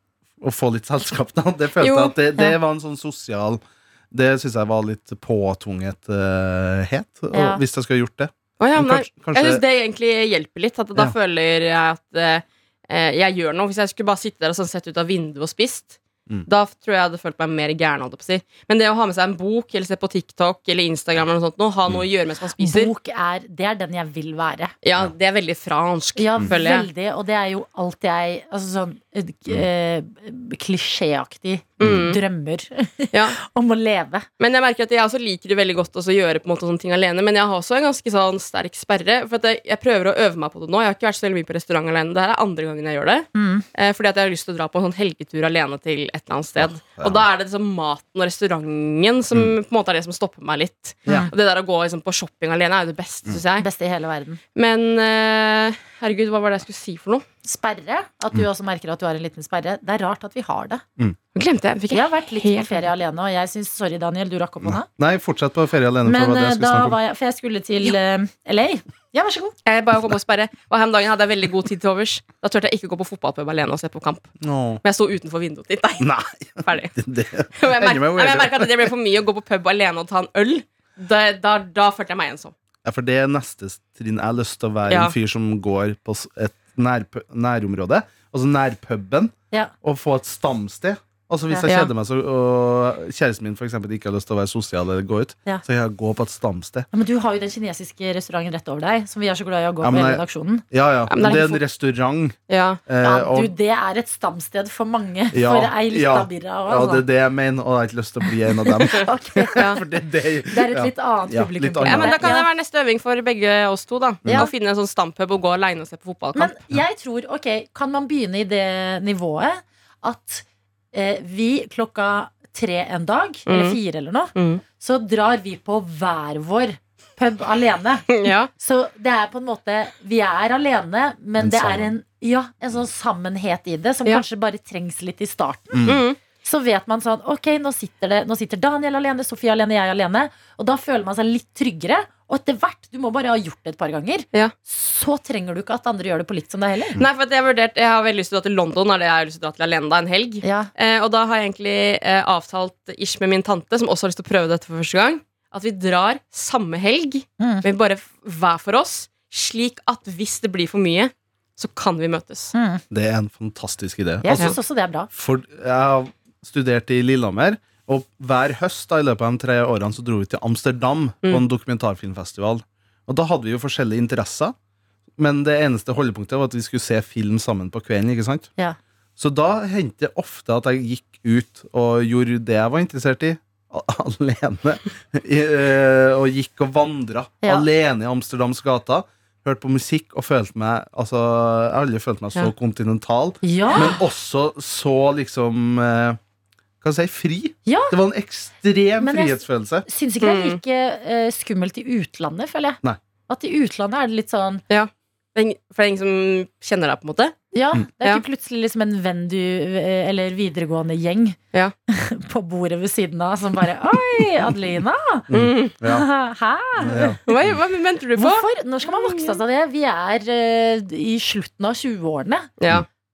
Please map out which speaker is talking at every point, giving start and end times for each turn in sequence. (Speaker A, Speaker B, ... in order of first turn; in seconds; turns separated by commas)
Speaker A: 0.4-9.6, Speaker B: 1.8-2.1, Speaker C: 7.3-7.6, Speaker B: 8.6-22.9, Speaker C: 22.6-24.7, Speaker B: 24.8-26.9, Speaker C: 26.2-34.2, Speaker B: 31.8-32.2, Speaker A: 31.8-32.1, Speaker B: 34.4-53.7, Speaker C: 43.3-43.6, Speaker A: 46.6-47.2, Speaker C: 53.6-54.4, Speaker B: 54.5-57.2, Speaker C: 57.4-60.8, Speaker B: 61.3-62.9, Speaker C: 61.9-64.9, Speaker A: 64.6-67.0, Speaker C: 66.0-69.5, Speaker B: 69.7-76.1, Speaker A: 74.4-74.8, Speaker A: 76.0-78.9, Speaker B: 76.6-76.9, Speaker B: 77.6-82.5, Speaker A: 82.8-96.9, Speaker B: 84.9-85.1, Speaker C: 96.9-100.6, Speaker A: 99.8-103.5, Speaker B: 101.1-101.6, Speaker B: 102.5-102.8, Speaker C: 103.0-107.0, Speaker A: 105.3-112.2, Speaker C: 108.6-109.8, Speaker C: 110.5-112.5, Speaker B: 111.8-116.5, Speaker A: 114.2-114.5, Speaker C: 116.3-147.0, Speaker B: 123.5-123.8, Speaker B: 124.3-124.6, Speaker B: 128.1-128.5, Speaker A: 131.4-131.9, Speaker A: 135.7-136.0, Speaker B: 135.9-136.2, Speaker B: 147.0-162.5, Speaker C: 150.4-150.7, Speaker C: 157.4-157.6, Speaker C: 162.5-162.8, Speaker A: 162.9-164.6, Speaker C: 164.2-165.1, Speaker A: 165.1-174.5, Speaker A: 175.2-178.5, Speaker A: 179.2-196.2, Speaker C: 193.4-194.0, Speaker A: 196.8-199.9, Speaker C: 197.7-197.9, Speaker C: 199.0-204.6, Speaker B: 200.2-200.6, Speaker B: 204.7-207.4, Speaker C: 207.5-215.3, Speaker A: 215.3-216.1, Speaker B: 215.3-215.7, Speaker C: 215.8-217.2, Speaker A: 216.8-217.2, Speaker B: 217.3-219.4, Speaker C: 218.2-222.5, Speaker B: 222.6-222.9